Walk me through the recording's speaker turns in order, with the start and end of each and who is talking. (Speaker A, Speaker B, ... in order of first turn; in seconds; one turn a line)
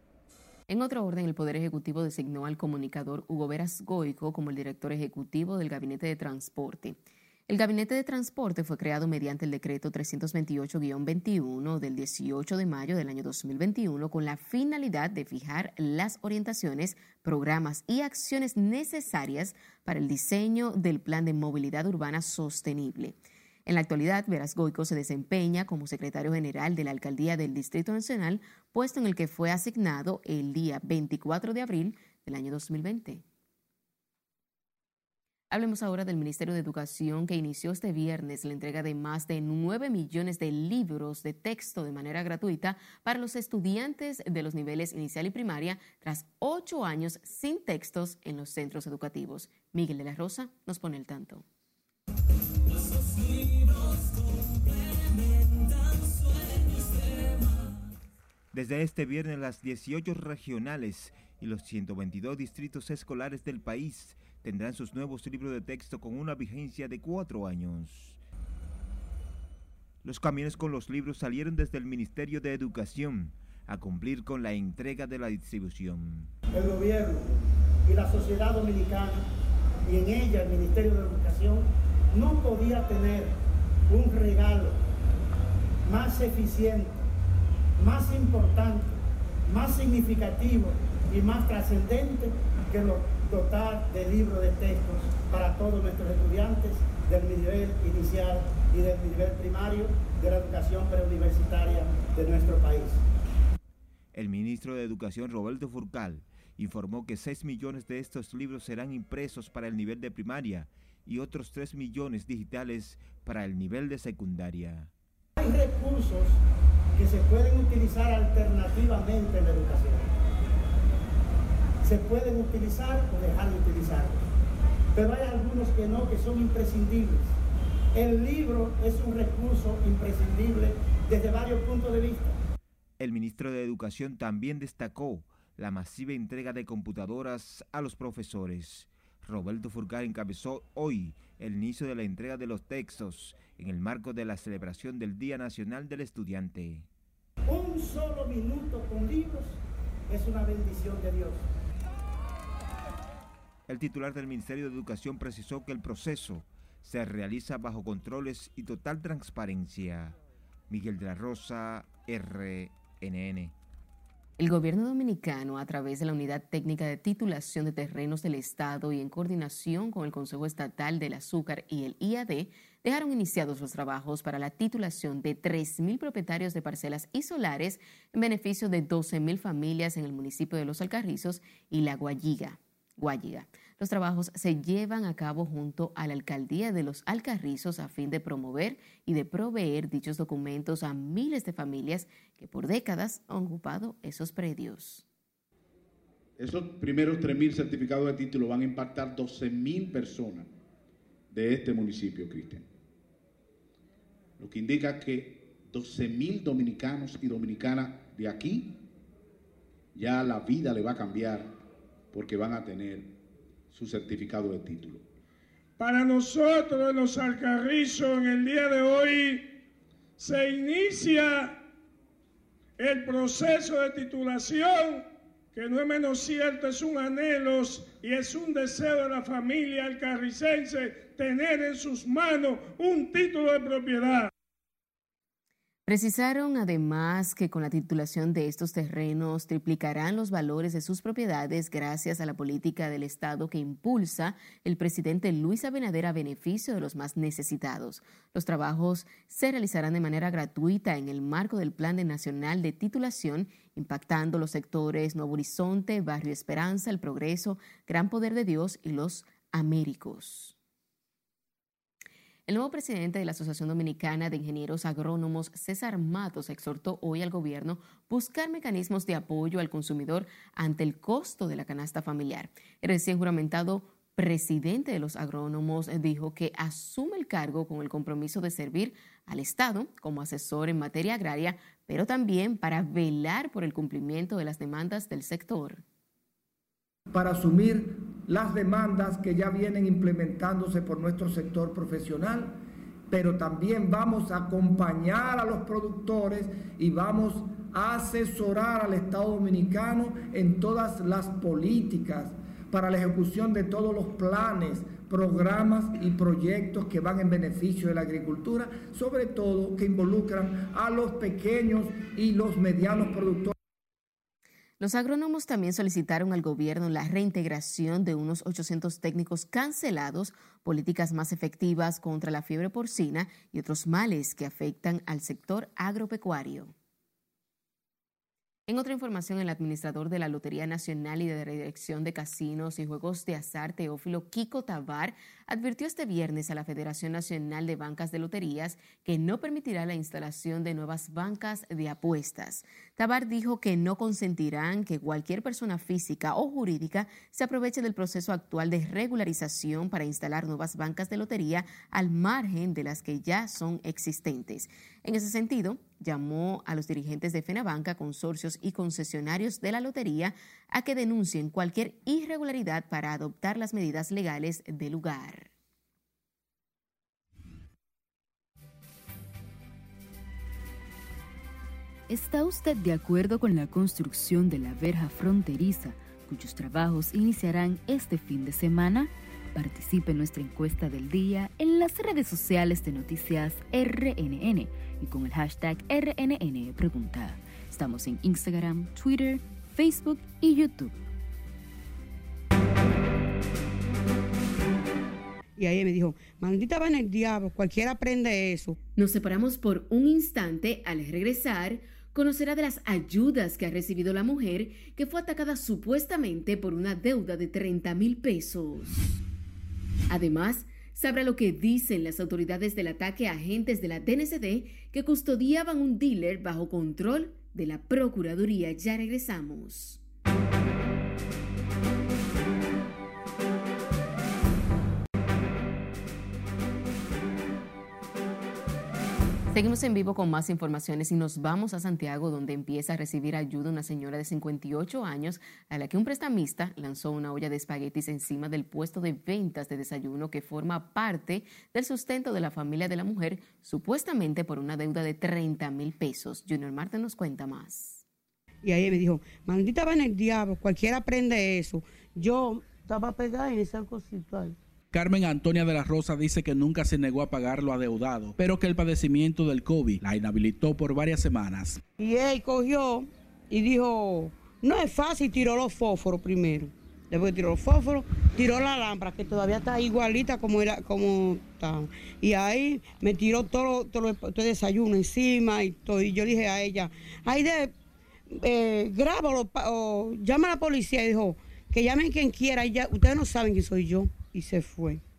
Speaker A: 0.7-33.2
Speaker A: 35.5-51.5
Speaker B: 58.5-68.2
Speaker B: 70.0-76.3
Speaker C: 76.5-77.3
Speaker C: 77.9-79.2
Speaker C: 79.9-83.4
Speaker C: 83.9-84.8
Speaker C: 85.8-87.0
Speaker C: 87.8-88.9
Speaker C: 89.5-103.0
Speaker B: 104.1-114.9
Speaker C: 115.4-116.4
Speaker C: 116.9-120.1
Speaker C: 121.8-124.2
Speaker C: 125.0-127.3
Speaker C: 127.9-132.4
Speaker B: 133.0-146.9
Speaker C: 147.5-149.6
Speaker C: 150.1-151.4
Speaker B: 153.7-160.2
Speaker B: 160.7-163.5
Speaker A: 164.4-195.1
Speaker D: 196.4-200.5
Speaker D: 201.3-202.7
Speaker D: 204.4-208.8
Speaker D: 209.9-211.6
Speaker D: 212.1-213.2
Speaker D: 213.7-215.0
Speaker E: 215.8-219.6
Speaker E: 220.2-221.6
Speaker E: 222.8-234.3
Speaker A: 235.9-260.6
Speaker A: 262.5-285.8
Speaker F: 287.1-292.6
Speaker F: 293.1-313.5
Speaker A: 314.8-326.7
Speaker A: 328.7-365.5
Speaker G: 372.1-390.9
Speaker H: 395.6-398.8
Speaker A: 399.0-409.2
Speaker A: 410.1-420.0
Speaker A: 429.5-448.0
Speaker H: 448.6-454.6
Speaker I: 454.9-461.8
Speaker H: 462.0-477.7
Speaker H: 478.3-485.0